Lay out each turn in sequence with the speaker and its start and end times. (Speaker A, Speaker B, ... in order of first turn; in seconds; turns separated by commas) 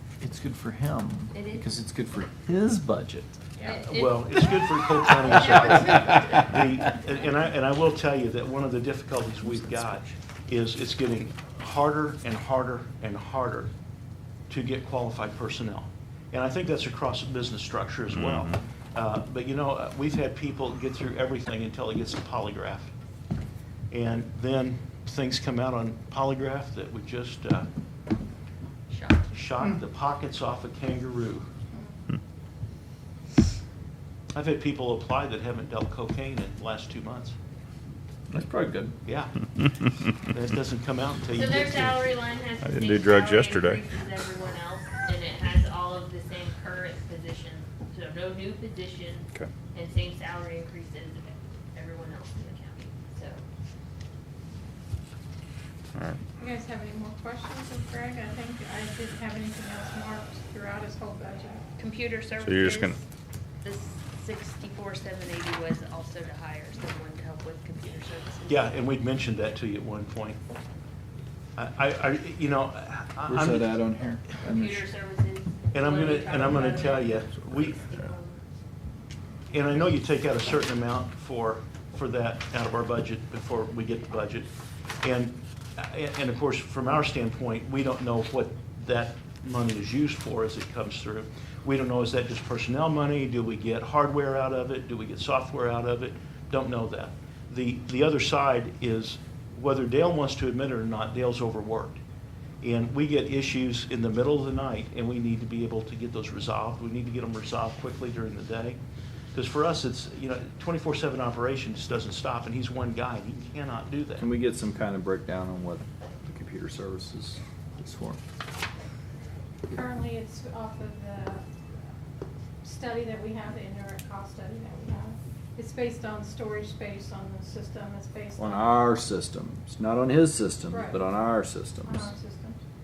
Speaker A: 0.2-3.4, Speaker B: 1.3-1.7, Speaker B: 3.6-4.4, Speaker C: 3.8-13.7, Speaker A: 5.2-6.6, Speaker B: 5.3-6.3, Speaker C: 14.5-22.9, Speaker D: 18.1-18.6, Speaker C: 23.9-27.7, Speaker B: 28.9-29.2, Speaker C: 29.3-31.5, Speaker C: 34.3-37.4, Speaker A: 38.3-38.9, Speaker C: 39.0-39.4, Speaker C: 40.1-42.0, Speaker B: 41.3-53.4, Speaker D: 42.6-43.8, Speaker D: 55.9-56.2, Speaker E: 56.4-61.6, Speaker B: 61.8-63.0, Speaker D: 62.4-63.0, Speaker B: 63.6-68.7, Speaker C: 68.5-70.4, Speaker C: 71.6-73.7, Speaker A: 73.3-74.8, Speaker B: 74.5-78.4, Speaker C: 75.7-77.8, Speaker C: 79.5-84.5, Speaker C: 85.0-102.0, Speaker C: 102.6-108.8, Speaker C: 109.3-114.3, Speaker A: 114.2-118.2, Speaker E: 119.7-121.5, Speaker E: 122.6-128.8, Speaker A: 128.4-132.1, Speaker E: 130.7-131.0, Speaker E: 131.8-132.6